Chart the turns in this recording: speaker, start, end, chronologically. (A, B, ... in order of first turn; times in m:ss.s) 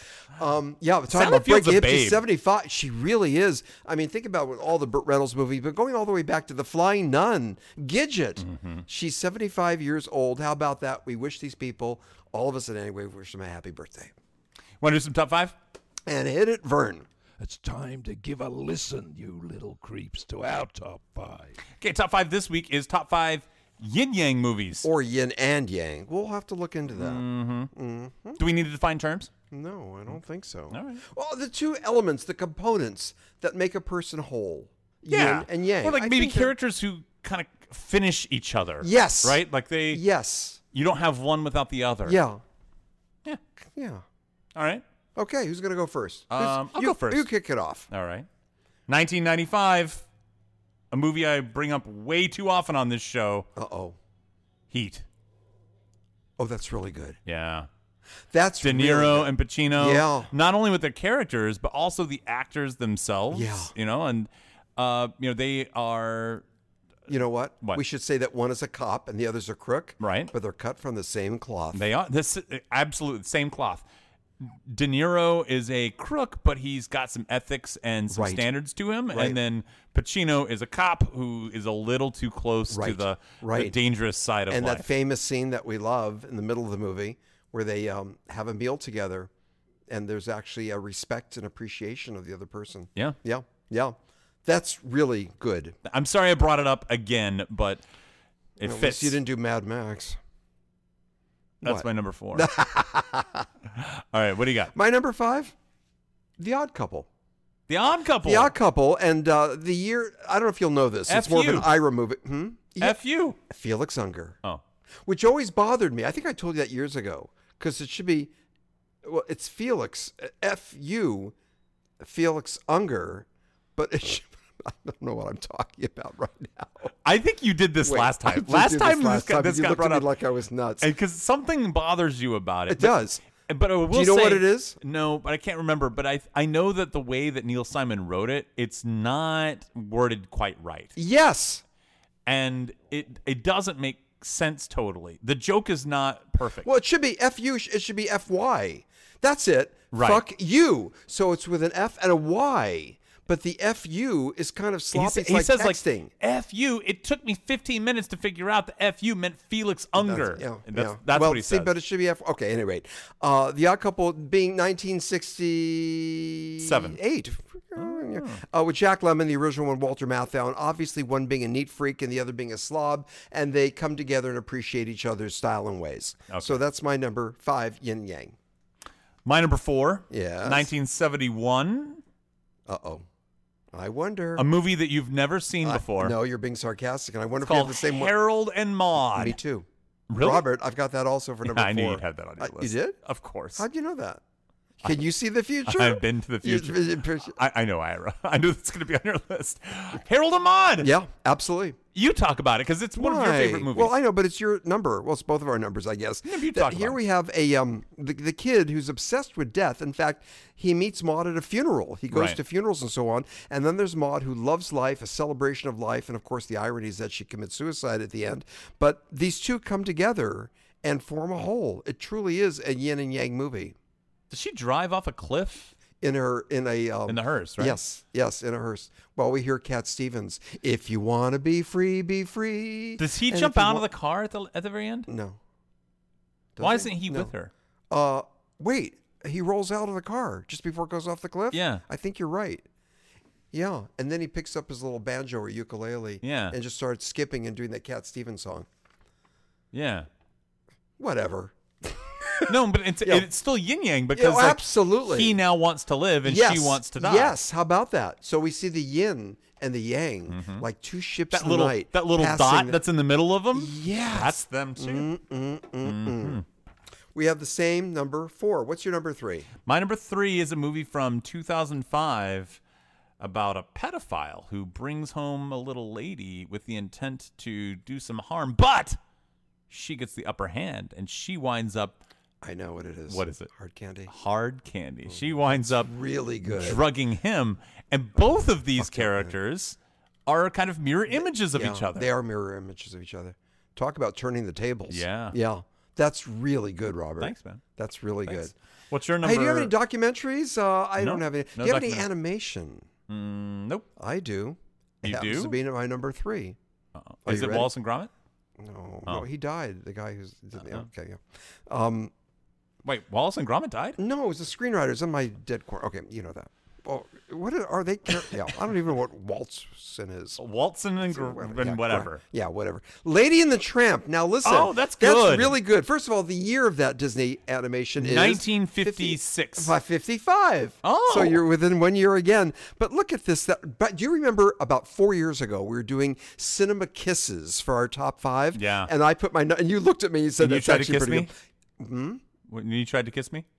0:00.3-0:14.1 A
0:01.1-0:02.2 B
0:08.4-0:08.8 B
0:14.8-0:15.6 B
0:16.1-0:17.1 A
0:17.4-0:21.6 C
0:21.8-0:24.9 B
0:24.8-0:28.4 A
0:26.9-0:27.7 B
0:28.4-0:29.3 B
0:29.5-0:36.5 A
0:30.7-0:31.0 B
0:35.1-0:40.0 B
0:38.8-0:40.6 A
0:40.7-0:42.2 B
0:42.1-0:42.4 A
0:43.8-0:44.0 A
0:44.6-0:44.8 B
0:45.2-0:47.9 A
0:46.3-0:47.3 B
0:47.9-0:48.3 B
0:48.9-0:50.1 B
0:50.9-0:53.5 B
0:53.6-0:54.0 A
0:54.7-0:55.0 B
0:56.4-0:57.2 A
0:57.3-0:57.7 B
0:58.3-1:00.3 A
0:58.6-1:06.4 B
1:03.3-1:03.7 A
1:07.1-1:11.8 A
1:10.0-1:10.3 B
1:11.7-1:13.8 B
1:14.4-1:24.9 B
1:18.1-1:18.5 A
1:19.1-1:19.4 A
1:22.7-1:23.8 A
1:24.5-1:29.3 A
1:29.9-1:35.8 A
1:35.8-1:37.8 B
1:38.6-1:39.2 B
1:38.6-1:40.2 A
1:41.6-1:43.4 A
1:41.6-1:42.5 B
1:43.7-1:44.7 B
1:44.7-1:45.6 A
1:46.4-1:47.1 A
1:47.7-1:48.5 B
1:48.2-1:54.4 A
1:51.1-1:51.7 B
1:52.8-1:53.4 B
1:55.1-1:58.3 A
1:59.0-2:01.3 A
2:02.0-2:06.9 A
2:07.0-2:10.1 B
2:07.8-2:10.9 A
2:10.8-2:21.0 B
2:12.7-2:13.2 A
2:13.9-2:14.8 A
2:21.0-2:21.6 A
2:22.3-2:26.7 B
2:26.6-2:36.1 A
2:29.9-2:30.2 B
2:34.9-2:41.7 B
2:40.0-2:58.4 A
2:46.6-2:47.0 B
2:47.8-2:48.4 B
2:56.3-2:56.6 B
2:59.2-3:02.0 B
3:00.1-3:00.7 A
3:02.7-3:03.0 A
3:03.7-3:04.5 A
3:04.4-3:06.2 B
3:05.6-3:08.2 A
3:07.4-3:09.4 B
3:09.1-3:13.0 A
3:10.1-3:10.4 B
3:11.4-3:13.6 B
3:13.6-3:14.2 A
3:14.8-3:17.4 A
3:15.7-3:20.9 B
3:20.8-3:21.8 A
3:21.9-3:24.0 B
3:23.0-3:43.8 A
3:26.2-3:27.0 B
3:32.1-3:32.4 B
3:44.3-3:45.7 B
3:46.0-3:53.9 A
3:47.1-3:47.8 B
3:53.0-3:55.1 B
3:55.1-3:55.4 A
3:56.6-3:57.3 A
3:56.6-3:57.5 B
3:57.9-4:02.6 A
4:01.5-4:01.8 B
4:03.5-4:08.7 A
4:06.2-4:06.6 B
4:09.7-4:10.1 B
4:11.0-4:13.3 A
4:12.4-4:17.4 B
4:14.1-4:15.4 A
4:16.2-4:22.8 A
4:20.3-4:20.6 B
4:21.3-4:25.1 B
4:23.5-4:26.4 A
4:25.8-4:26.4 B
4:27.2-4:29.5 A
4:29.6-4:32.6 B
4:33.2-4:39.0 B
4:39.7-4:42.0 B
4:42.4-4:44.1 A
4:43.1-4:43.5 B
4:44.1-4:45.9 B
4:45.1-4:46.8 A
4:46.4-4:52.1 B
4:48.8-4:49.4 A
4:51.1-4:58.5 A
4:54.9-4:55.4 B
4:57.2-4:57.6 B
4:58.3-4:59.7 B
4:59.2-5:02.9 A
5:01.0-5:02.1 B
5:03.1-5:03.9 B
5:04.0-5:06.6 A
5:05.0-5:05.6 B
5:07.0-5:08.1 B
5:07.3-5:07.7 A
5:08.6-5:12.1 A
5:12.8-5:14.0 B
5:14.0-5:20.4 A
5:20.4-5:22.2 B
5:21.1-5:42.2 A
5:24.4-5:25.6 B
5:28.0-5:29.7 B
5:30.8-5:31.4 B
5:38.5-5:38.9 B
5:40.4-5:41.3 B
5:42.5-5:43.5 B